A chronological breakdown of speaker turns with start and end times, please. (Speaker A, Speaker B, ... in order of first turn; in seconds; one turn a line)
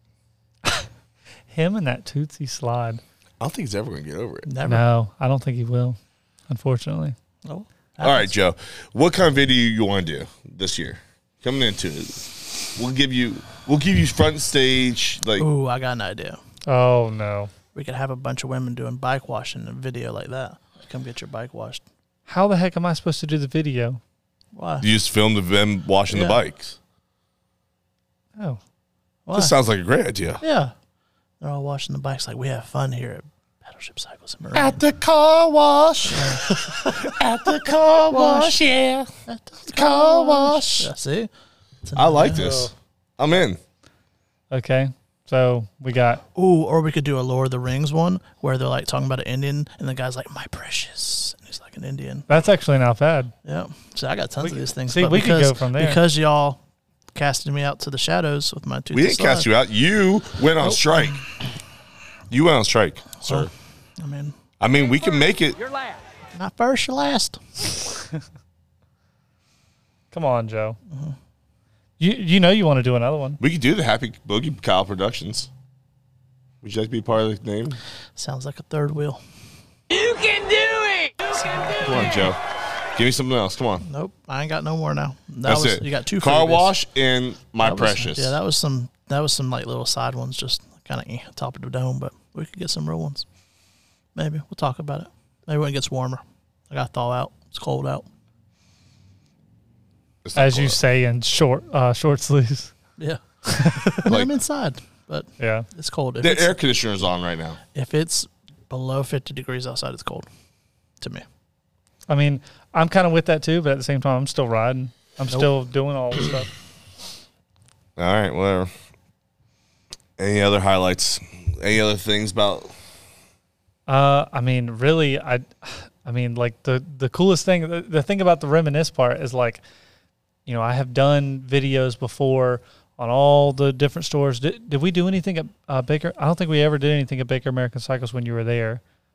Speaker A: 1.5-3.0
Speaker B: 3.4-4.5
Speaker C: 4.5-4.9
Speaker A: 4.7-7.2
Speaker C: 7.5-8.3
Speaker B: 8.0-15.5
Speaker C: 15.4-16.4
Speaker A: 16.7-17.5
Speaker C: 17.8-21.8
Speaker A: 22.3-24.0
Speaker C: 24.6-24.9
Speaker B: 24.8-26.8
Speaker C: 26.1-26.4
Speaker C: 29.3-29.6
Speaker B: 29.3-30.4
Speaker C: 30.4-30.7
Speaker C: 31.4-34.8
Speaker B: 34.5-39.1
Speaker C: 36.1-36.9
Speaker C: 38.1-38.6
Speaker C: 39.3-41.3
Speaker B: 39.7-40.9
Speaker C: 41.9-42.5
Speaker B: 42.0-43.6
Speaker A: 42.4-42.7
Speaker A: 44.5-46.2
Speaker C: 46.4-52.3
Speaker A: 52.3-53.3
Speaker C: 53.5-56.6
Speaker A: 54.4-56.0
Speaker C: 57.1-59.5
Speaker B: 58.9-61.2
Speaker B: 62.3-63.5
Speaker C: 63.2-64.3
Speaker B: 64.6-65.6
Speaker C: 66.3-67.4
Speaker A: 70.1-70.8
Speaker A: 72.0-73.4
Speaker B: 73.4-75.5
Speaker B: 76.6-77.8
Speaker C: 78.2-79.2
Speaker C: 81.4-81.8
Speaker B: 81.8-82.4
Speaker B: 82.9-83.8
Speaker C: 83.8-86.7
Speaker B: 85.5-88.4
Speaker C: 87.6-93.3
Speaker C: 94.2-98.1
Speaker B: 100.2-100.8
Speaker A: 100.3-102.7
Speaker A: 103.5-104.1
Speaker C: 103.9-106.6
Speaker A: 105.4-105.7
Speaker B: 106.2-107.6
Speaker C: 107.7-110.3
Speaker A: 112.1-116.5
Speaker B: 118.0-118.7
Speaker B: 120.2-122.7
Speaker A: 123.9-129.6
Speaker A: 130.5-138.8